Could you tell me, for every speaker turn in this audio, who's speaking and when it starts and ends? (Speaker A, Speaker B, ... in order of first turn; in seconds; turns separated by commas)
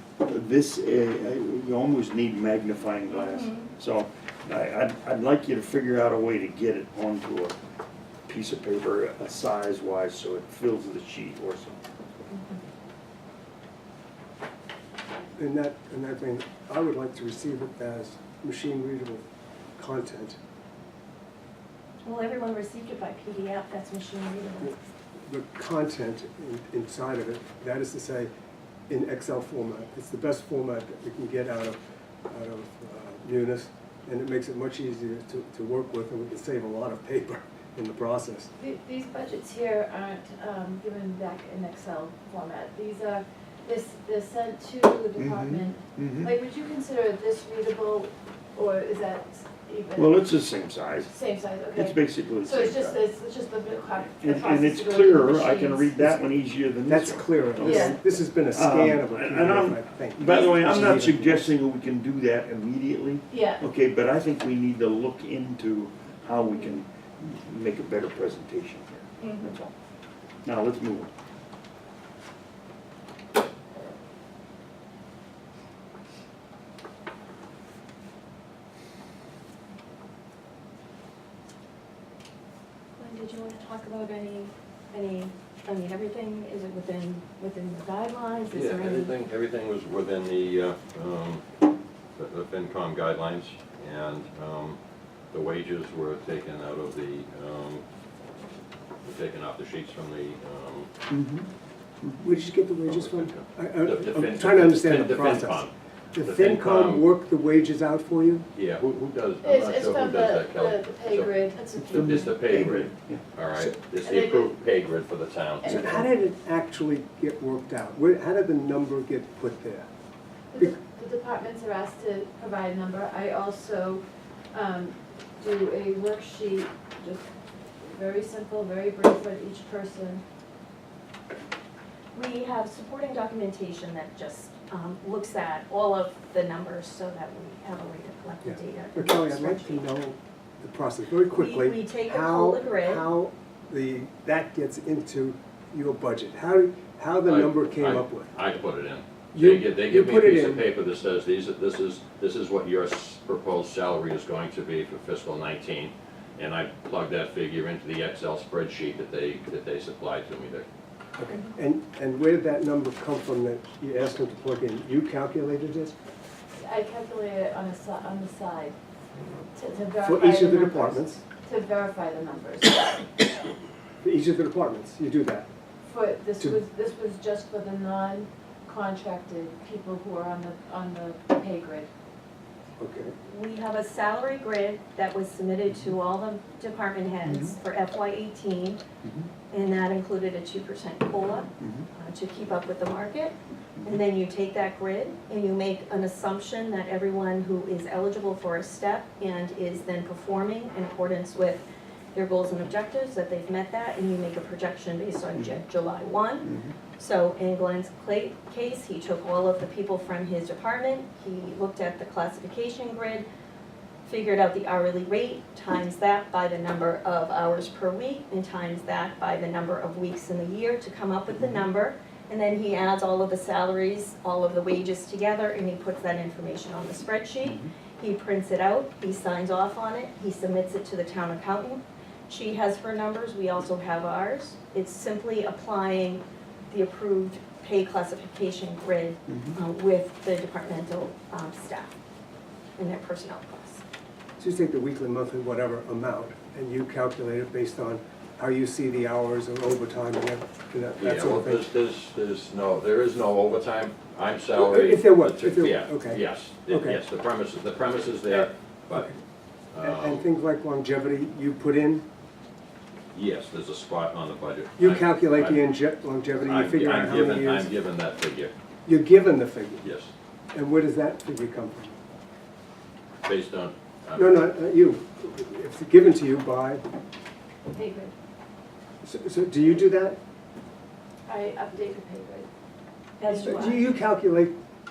Speaker A: 0.2-7.5, Speaker A: 8.3-11.8, Speaker B: 15.3-19.2, Speaker B: 19.8-20.4, Speaker C: 22.0-24.7, Speaker B: 25.2-28.3, Speaker B: 28.9-38.5, Speaker D: 38.6-50.3, Speaker A: 45.2-46.3, Speaker A: 49.9-51.1, Speaker D: 51.0-56.0, Speaker A: 51.7-52.9, Speaker A: 54.2-69.6, Speaker B: 56.9-61.5, Speaker D: 57.6-58.0, Speaker D: 63.3-63.6, Speaker A: 70.4-71.1, Speaker C: 83.0-89.1, Speaker E: 88.5-91.4, Speaker E: 92.2-94.8, Speaker E: 95.3-97.8, Speaker E: 99.0-100.9, Speaker A: 101.1-101.5, Speaker B: 102.2-108.5, Speaker E: 102.8-107.0, Speaker E: 108.5-115.8, Speaker D: 109.4-112.4, Speaker A: 111.9-113.2, Speaker D: 114.0-114.6, Speaker D: 115.6-116.1, Speaker B: 115.6-119.9, Speaker D: 120.5-127.3, Speaker D: 127.8-130.2, Speaker C: 132.1-139.8, Speaker B: 138.4-148.3, Speaker C: 141.3-143.1, Speaker E: 147.2-160.7, Speaker B: 149.3-150.6, Speaker B: 161.2-165.9, Speaker D: 166.6-168.8, Speaker D: 169.5-173.1, Speaker B: 170.0-171.2, Speaker B: 174.0-175.5, Speaker D: 175.8-181.9, Speaker B: 182.8-183.1, Speaker C: 183.2-188.8, Speaker A: 187.3-187.6, Speaker C: 189.5-201.6, Speaker C: 202.1-213.2, Speaker A: 205.4-205.6, Speaker A: 206.4-206.7, Speaker C: 214.0-241.9, Speaker A: 227.4-227.7, Speaker C: 242.8-243.8, Speaker B: 244.4-251.6, Speaker E: 250.9-259.2, Speaker B: 254.5-257.0, Speaker E: 259.7-260.2, Speaker B: 259.8-262.0, Speaker E: 263.1-265.6, Speaker B: 264.8-267.7, Speaker E: 266.4-268.5, Speaker B: 268.9-269.8, Speaker E: 269.8-270.1, Speaker B: 270.5-271.9, Speaker E: 273.2-274.5, Speaker B: 274.1-276.8, Speaker D: 277.7-278.1, Speaker B: 279.0-280.2, Speaker D: 281.2-282.5, Speaker C: 283.2-283.8, Speaker D: 283.3-283.6, Speaker B: 283.4-284.5